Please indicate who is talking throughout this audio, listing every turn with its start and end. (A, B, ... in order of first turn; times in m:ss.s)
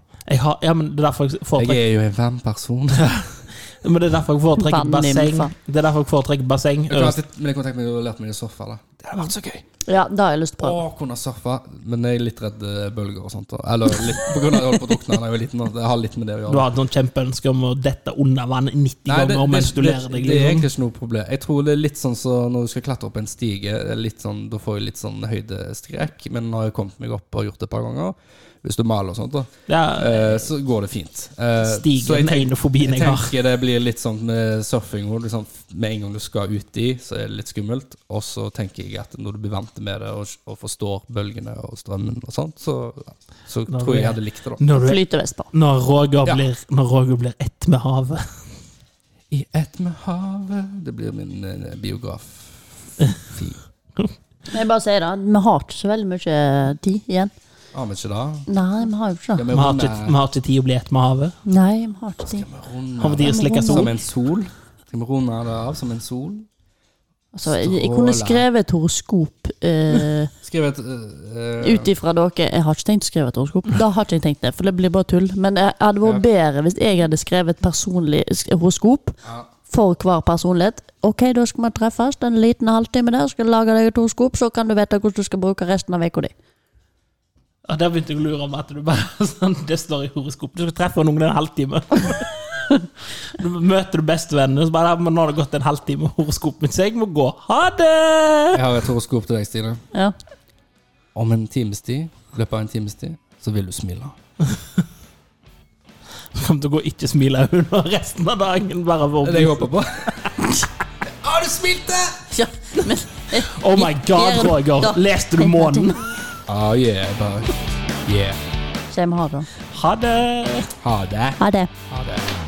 0:00.3-0:01.8 A
0:01.6-0:03.1 B
0:02.9-0:07.2 A
0:04.6-0:05.5 C
0:06.9-0:09.6 B
0:09.9-0:10.8 C
0:10.6-0:16.7 B
0:16.5-0:20.7 A
0:19.1-0:44.6 B
0:29.7-0:30.4 A
0:31.6-0:33.3 A
0:43.7-0:48.2 A
0:44.7-0:45.5 C
0:49.3-0:53.6 B
0:54.5-0:57.3 C
0:57.7-0:58.5 B
0:58.5-0:59.4 C
0:59.3-1:00.1 B
0:59.5-1:01.3 A
1:01.4-1:02.5 C
1:02.3-1:06.5 B
1:03.0-1:03.9 A
1:03.2-1:03.9 C
1:07.3-1:10.3 C
1:07.4-1:08.5 B
1:10.4-1:11.9 B
1:11.6-1:26.3 C
1:27.6-1:32.7 A
1:33.3-1:38.6 A
1:38.5-1:39.8 B
1:41.1-1:44.2 B
1:46.3-1:49.7 A
1:49.2-1:50.3 B
1:51.0-1:52.2 B
1:52.3-1:56.0 C
1:53.3-1:56.0 A
1:56.5-1:58.4 B
1:58.9-1:59.5 C
1:59.7-2:00.7 A
2:00.8-2:01.4 B
2:01.4-2:01.7 C
2:01.9-2:02.2 B